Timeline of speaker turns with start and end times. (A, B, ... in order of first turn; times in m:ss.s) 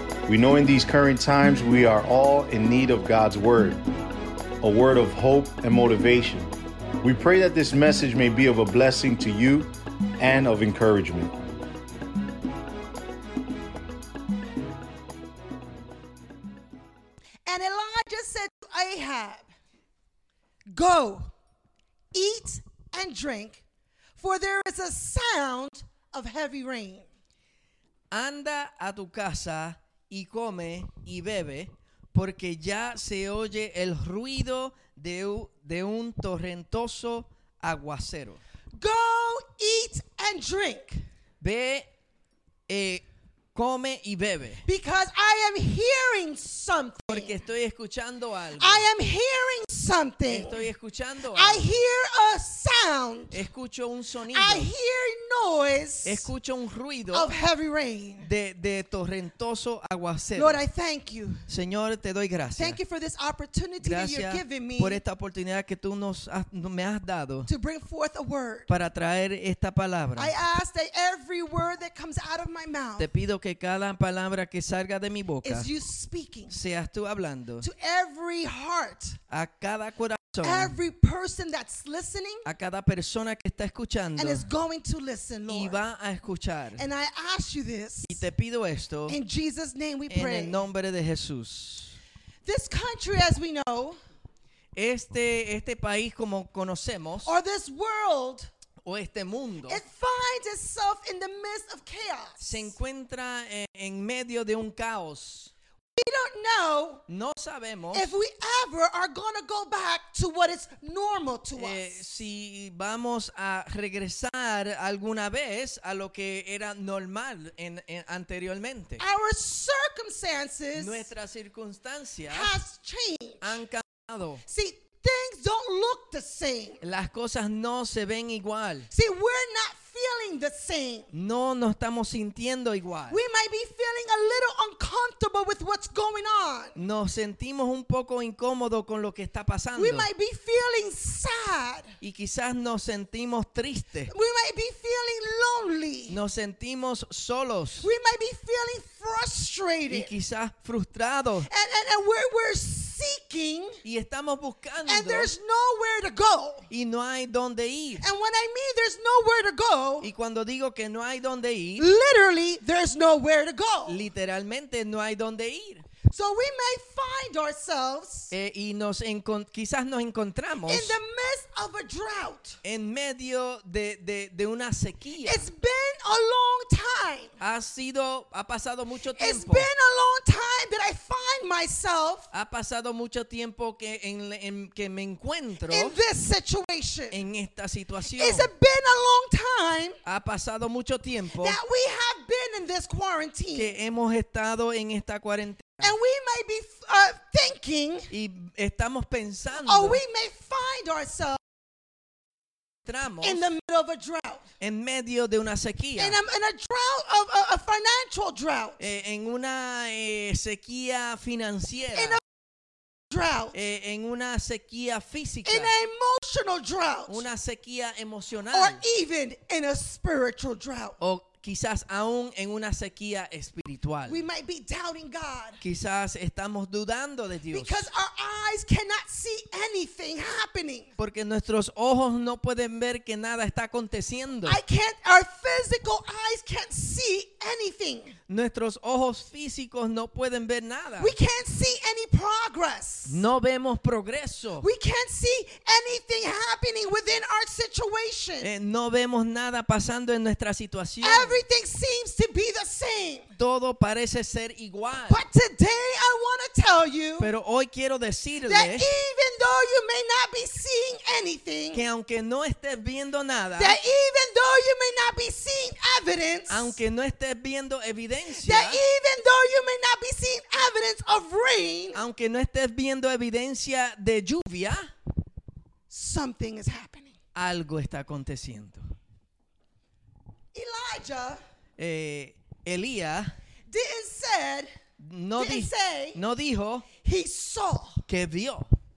0:00.3-0:03.8 A
0:04.6-0:06.5 A
0:07.0-0:11.3 A
0:17.4-0:19.5 B
0:20.7-0:21.3 B
0:22.1-0:23.6 B
0:24.2-0:27.1 B
0:28.1-0:38.4 C
0:38.7-0:41.0 B
0:41.4-0:41.9 C
0:42.7-0:44.6 C
0:44.6-0:47.4 B
0:47.1-0:48.8 C
0:48.6-0:50.7 B
0:50.3-0:51.7 C
0:51.3-0:53.4 B
0:53.3-0:54.7 C
0:54.3-0:56.3 B
0:56.0-0:57.3 C
0:57.1-0:58.3 B
0:58.2-1:00.6 C
1:00.4-1:01.4 B
1:01.5-1:02.8 C
1:02.6-1:05.0 B
1:03.8-1:07.5 C
1:07.4-1:08.7 B
1:08.7-1:10.3 C
1:10.2-1:13.1 B
1:13.0-1:15.7 C
1:15.4-1:16.6 B
1:16.5-1:17.7 C
1:17.6-1:19.2 B
1:19.3-1:20.8 C
1:20.4-1:22.5 B
1:22.4-1:24.5 C
1:24.2-1:25.9 B
1:25.5-1:26.8 C
1:26.8-1:28.2 B
1:28.1-1:29.2 C
1:29.1-1:30.6 B
1:30.1-1:32.0 C
1:32.4-1:34.0 B
1:34.8-1:37.3 C
1:37.2-1:38.5 B
1:38.8-1:39.8 C
1:39.7-1:42.8 B
1:42.4-1:45.5 C
1:46.0-1:47.0 B
1:47.1-1:48.1 C
1:47.9-1:52.0 B
1:51.6-1:59.0 C
1:59.0-2:01.1 B
2:00.8-2:02.6 C
2:02.3-2:03.6 B
2:03.4-2:04.4 C
2:04.4-2:06.8 B
2:06.8-2:08.9 C
2:08.9-2:11.1 B
2:11.1-2:13.2 C
2:13.1-2:16.8 B
2:16.8-2:20.1 C
2:19.8-2:22.0 B
2:22.0-2:24.1 C
2:24.1-2:26.2 B
2:26.1-2:27.9 C
2:27.8-2:30.1 B
2:29.9-2:31.5 C
2:31.4-2:33.8 B
2:33.8-2:35.3 C
2:34.9-2:36.7 B
2:36.7-2:38.1 C
2:38.0-2:40.1 B
2:40.0-2:41.9 C
2:41.8-2:44.1 B
2:43.9-2:45.8 C
2:46.1-2:48.3 B
2:48.3-2:51.0 C
2:50.7-2:52.6 B
2:52.6-2:55.4 C
2:55.2-2:57.4 B
2:57.4-2:59.7 C
2:59.2-3:02.3 B
3:02.3-3:06.0 C
3:05.6-3:07.2 B
3:07.1-3:08.5 C
3:08.0-3:10.0 B
3:10.0-3:11.6 C
3:11.4-3:13.8 B
3:13.5-3:15.9 C
3:15.8-3:18.1 B
3:18.1-3:20.0 C
3:19.6-3:21.4 B
3:22.9-3:23.5 C
3:23.2-3:24.5 B
3:24.6-3:26.2 C
3:26.0-3:28.9 B
3:28.8-3:32.2 C
3:31.9-3:32.2 B
3:33.1-3:33.6 B
3:33.5-3:35.7 C
3:35.4-3:37.3 B
3:37.1-3:38.8 C
3:38.5-3:41.0 B
3:41.0-3:44.2 C
3:44.1-3:45.6 B
3:45.6-3:47.9 C
3:47.5-3:50.9 B
3:51.0-3:54.6 C
3:54.4-3:58.2 B
3:58.3-4:01.2 C
4:01.0-4:03.2 B
4:03.1-4:04.7 C
4:04.6-4:08.5 B
4:08.4-4:11.4 C
4:11.0-4:13.3 B
4:13.4-4:15.2 C
4:15.1-4:17.3 B
4:17.2-4:18.9 C
4:18.4-4:21.9 B
4:21.7-4:23.8 C
4:23.6-4:26.8 B
4:26.5-4:28.8 C
4:28.4-4:32.0 B
4:31.9-4:34.9 C
4:35.9-4:37.2 B
4:37.4-4:38.9 C
4:40.5-4:41.4 B
4:41.8-4:43.3 C
4:43.7-4:44.7 B
4:45.0-4:46.9 C
4:45.4-4:46.2 B
4:47.0-4:48.0 B
4:48.1-4:48.7 C